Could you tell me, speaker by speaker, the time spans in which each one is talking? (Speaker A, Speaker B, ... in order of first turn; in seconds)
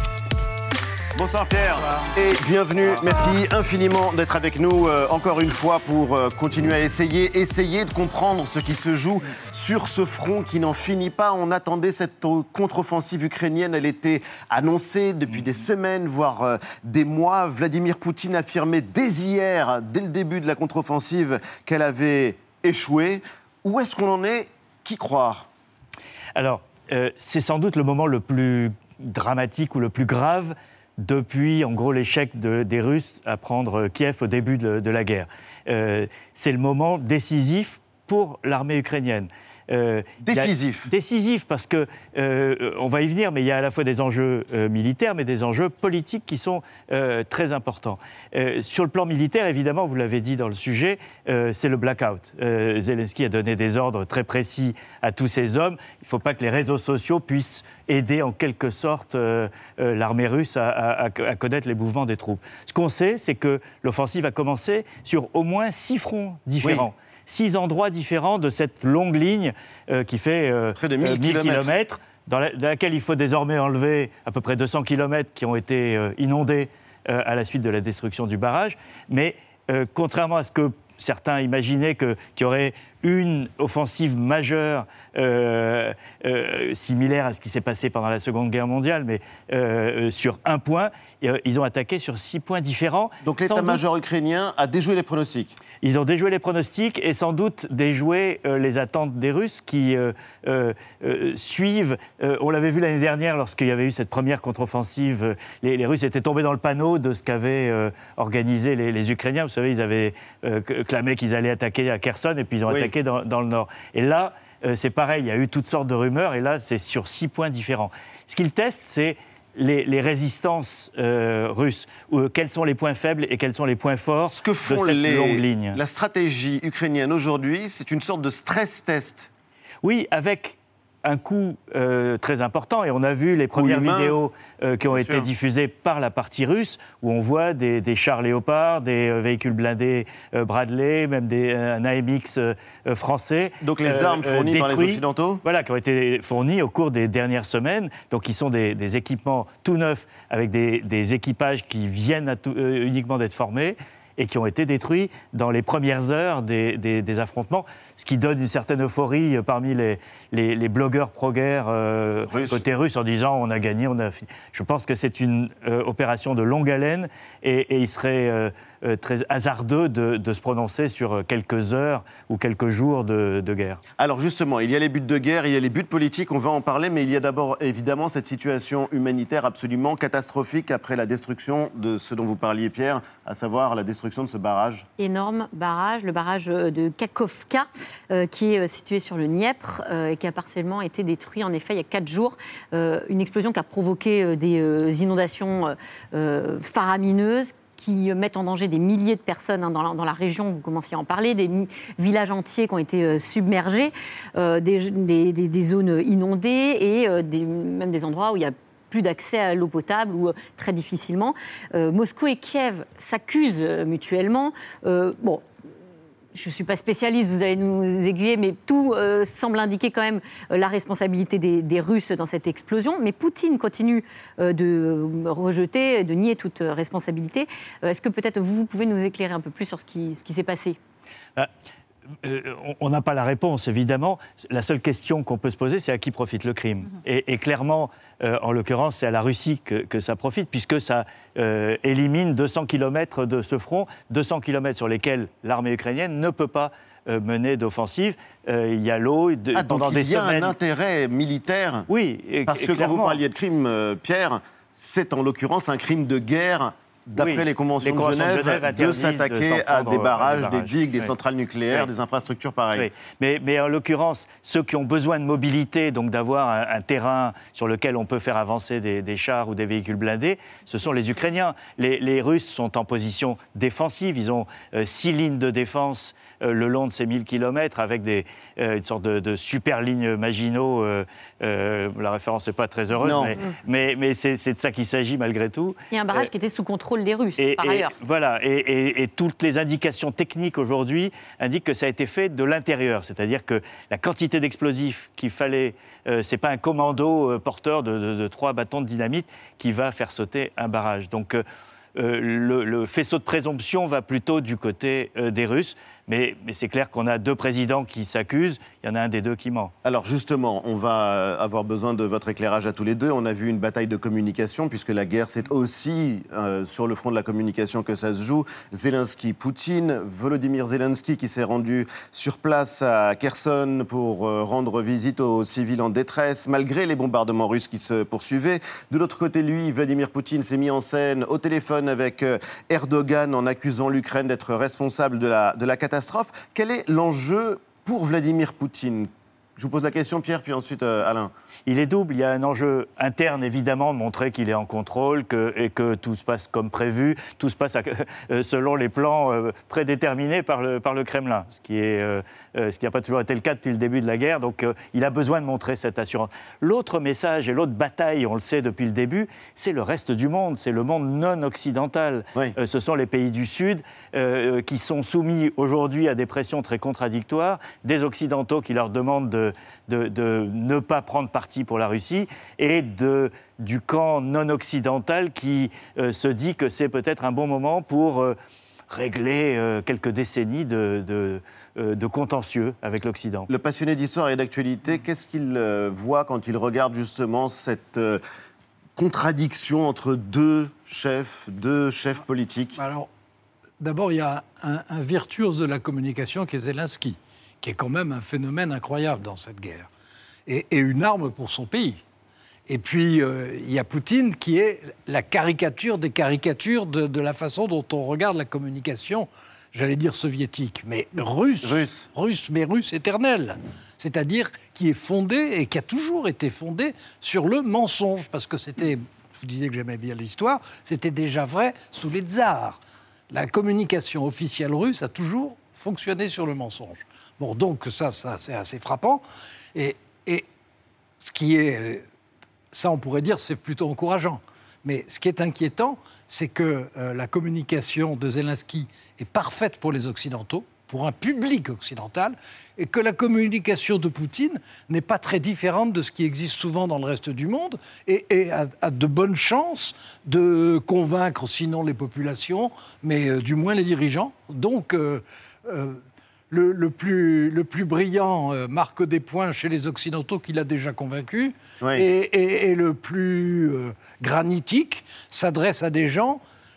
Speaker A: 1.1-25.5, 40.2-40.9, 66.6-66.9, 70.8-71.7, 93.2-95.6, 112.7-112.9, 124.3-129.3, 133.5-134.2, 134.9-135.3, 143.6-145.4, 162.3-162.6, 174.0-184.9, 249.5-251.9, 252.5-262.9, 283.0-283.4, 309.8-341.3, 383.5-388.2, 389.0-392.8, 411.6-412.1
Speaker B: 26.4-93.8, 95.8-125.8, 129.8-173.8, 232.2-250.6, 251.9-253.2, 257.1-261.1, 262.7-286.3, 287.4-301.4, 302.0-309.7, 341.7-378.4, 378.9-383.5
Speaker C: 185.0-215.4, 216.3-230.8, 285.9-287.9
Speaker D: 392.8-393.1, 393.8-399.9, 400.5-402.0, 402.7-429.2, 429.8-430.5, 431.2-432.1, 432.7-466.4